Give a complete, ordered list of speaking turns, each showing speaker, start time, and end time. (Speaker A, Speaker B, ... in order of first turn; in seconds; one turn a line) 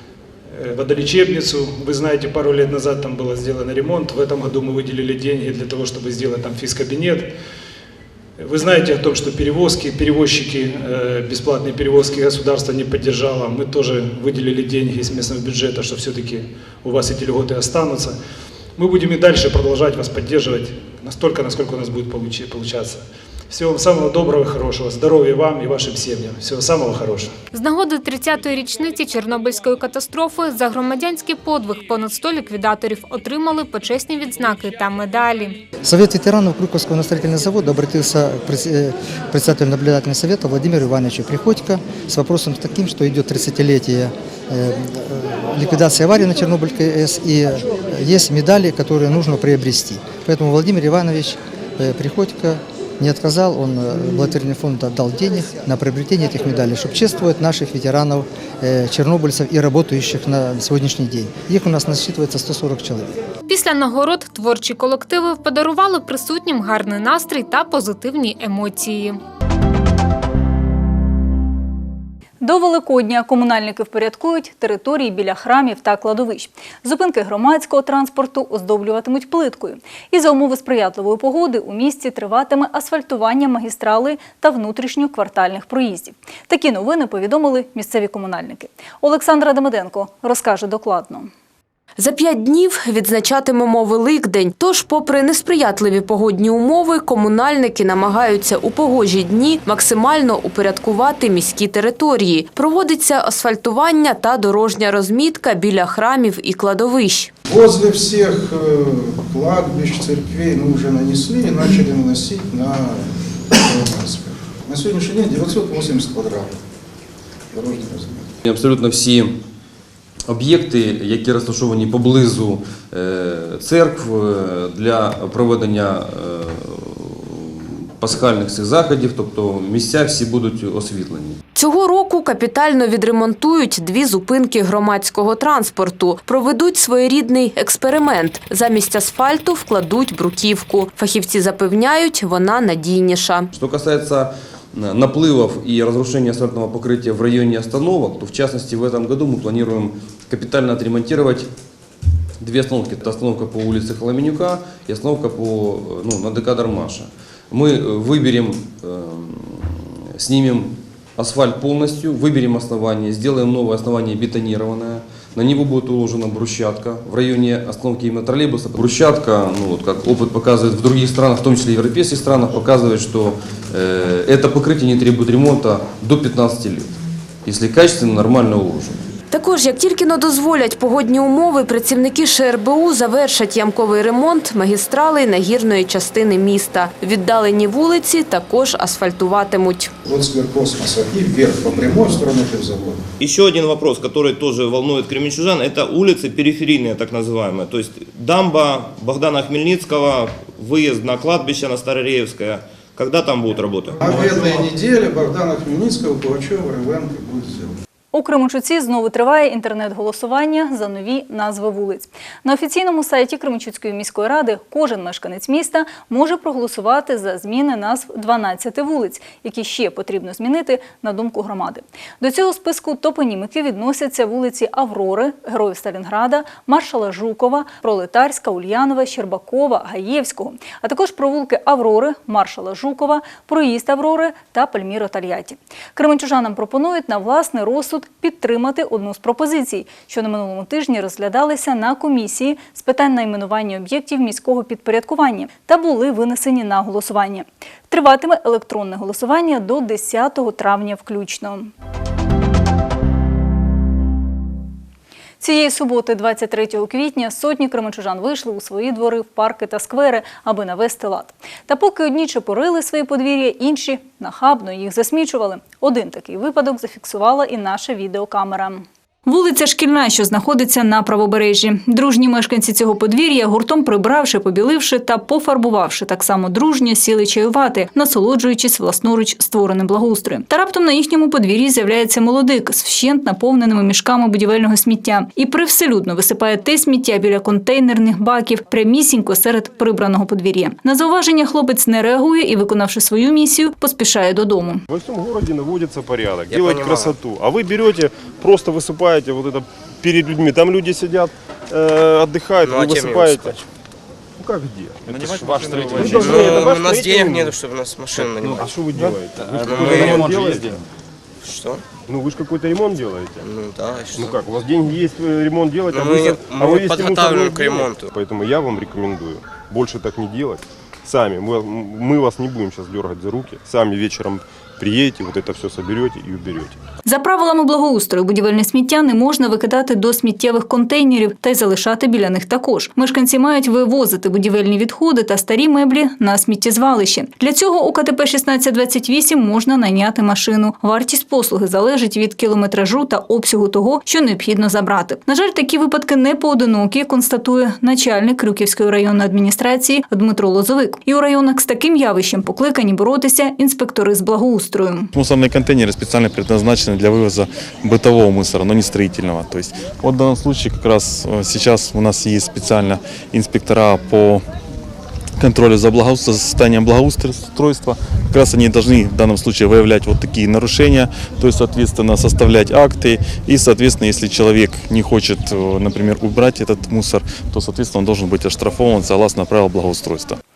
Speaker A: 0.5-7.3
Speaker A: 8.4-18.2
Speaker A: 18.8-27.4
Speaker B: 27.5-35.6
Speaker C: 35.8-63.1
Speaker B: 63.5-69.2
Speaker D: 72.4-91.3
Speaker E: 92.0-107.3
Speaker F: 107.5-116.6
Speaker F: 117.5-118.3
Speaker G: 118.4-119.4
Speaker G: 120.3-131.4
Speaker E: 131.5-143.5
Speaker G: 143.5-151.5
Speaker G: 152.4-176.9
Speaker G: 177.4-179.0
Speaker E: 179.3-189.9
Speaker F: 190.0-193.0
Speaker H: 193.2-204.7
Speaker F: 204.0-207.7
Speaker D: 208.1-251.7
Speaker D: 255.4-294.8
Speaker I: 294.9-303.6
Speaker J: 296.5-297.2
Speaker J: 302.6-303.6
Speaker I: 304.4-307.5
Speaker J: 305.1-310.8
Speaker I: 308.1-310.8
Speaker J: 311.4-311.8
Speaker I: 312.1-313.4
Speaker J: 313.4-314.4
Speaker I: 314.1-326.8
Speaker J: 315.9-318.1
Speaker D: 327.0-355.1
Speaker K: 355.1-364.4
Speaker K: 365.4-380.4